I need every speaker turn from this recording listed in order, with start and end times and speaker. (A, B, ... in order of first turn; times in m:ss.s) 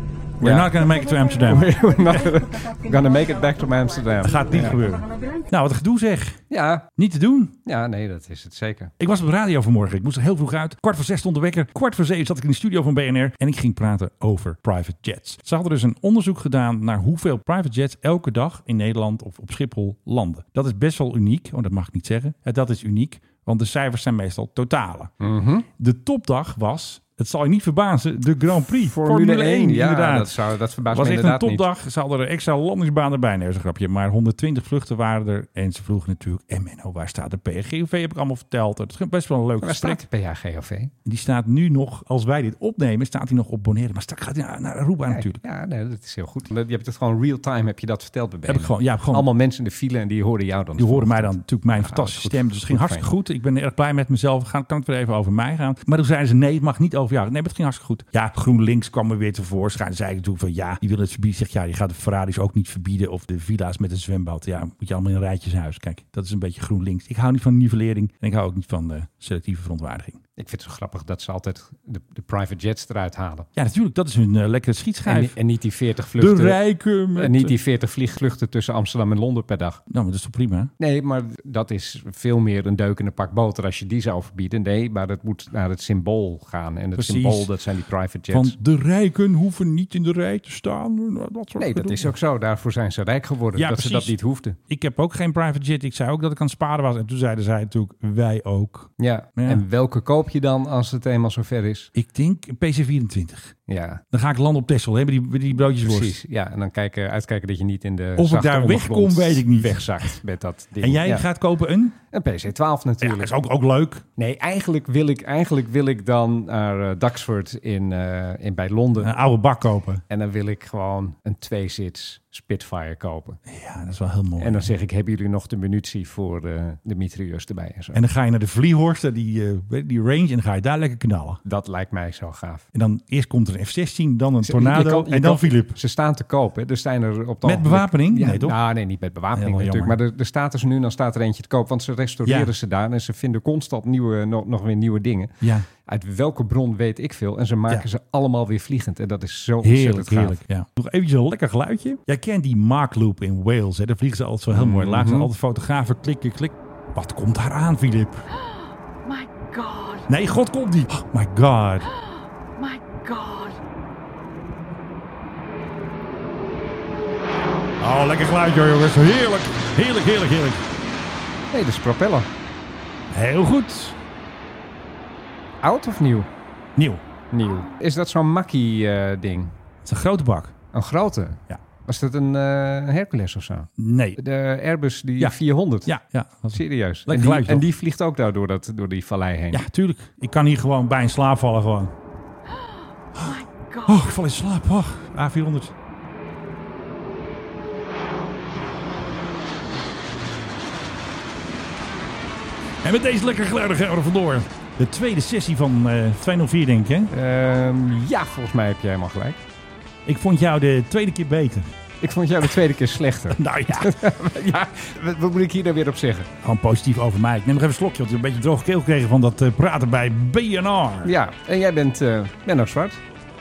0:00.4-0:00.7 A
0:00.4-0:01.8 B
0:01.4-0:04.9 A
0:04.2-0:06.4 B
0:06.5-0:06.9 A
0:06.9-0:07.6 B
0:07.6-0:08.9 A
0:09.0-0:25.1 B
0:25.2-0:25.7 A
0:25.8-0:30.4 B
0:28.9-0:31.6 A
0:30.9-0:40.0 B
0:39.6-0:40.9 A
0:41.1-0:45.4 B
0:45.1-0:53.1 A
0:48.5-0:49.3 B
0:50.8-1:10.2 B
1:10.4-1:13.5 A
1:13.6-1:15.4 B
1:15.0-1:16.6 A
1:16.2-1:17.6 B
1:17.2-1:19.8 A
1:19.9-1:20.7 B
1:20.8-1:28.6 A
1:27.0-1:27.5 B
1:28.3-1:32.2 B
1:31.6-1:34.6 A
1:33.6-1:34.2 B
1:34.7-1:39.6 B
1:39.0-1:41.9 A
1:42.0-1:43.6 B
1:43.7-1:44.0 A
1:44.1-1:46.2 B
1:45.8-1:51.3 A
1:48.2-1:50.2 B
1:50.8-1:52.0 B
1:52.1-1:53.3 A
1:53.0-1:54.0 B
1:54.2-1:59.1 A
1:59.0-2:00.0 B
2:00.1-2:03.4 A
2:03.5-2:04.7 B
2:04.4-2:08.0 A
2:07.9-2:11.4 B
2:11.4-2:12.6 A
2:12.7-2:15.8 B
2:14.4-2:30.4 A
2:17.4-2:18.6 B
2:19.3-2:20.0 B
2:22.2-2:22.5 B
2:25.4-2:25.7 B
2:29.6-2:38.2 B
2:34.5-2:35.3 A
2:39.1-2:40.0 A
2:40.1-2:41.9 B
2:42.6-2:43.6 A
2:47.8-2:50.6 B
2:51.5-2:52.3 A
2:53.1-2:54.0 B
2:55.6-2:56.3 A
2:56.8-2:57.0 B
2:57.3-2:59.5 A
2:59.8-3:00.5 B
3:00.7-3:05.9 A
3:03.8-3:04.2 B
3:05.2-3:07.7 B
3:06.5-3:09.6 A
3:09.5-3:11.9 B
3:13.2-3:15.7 B
3:22.8-3:27.1 B
3:27.1-3:29.4 A
3:30.1-3:31.7 B
3:32.0-3:36.3 A
3:33.3-3:34.0 B
3:36.4-3:41.2 B
3:41.0-3:43.0 A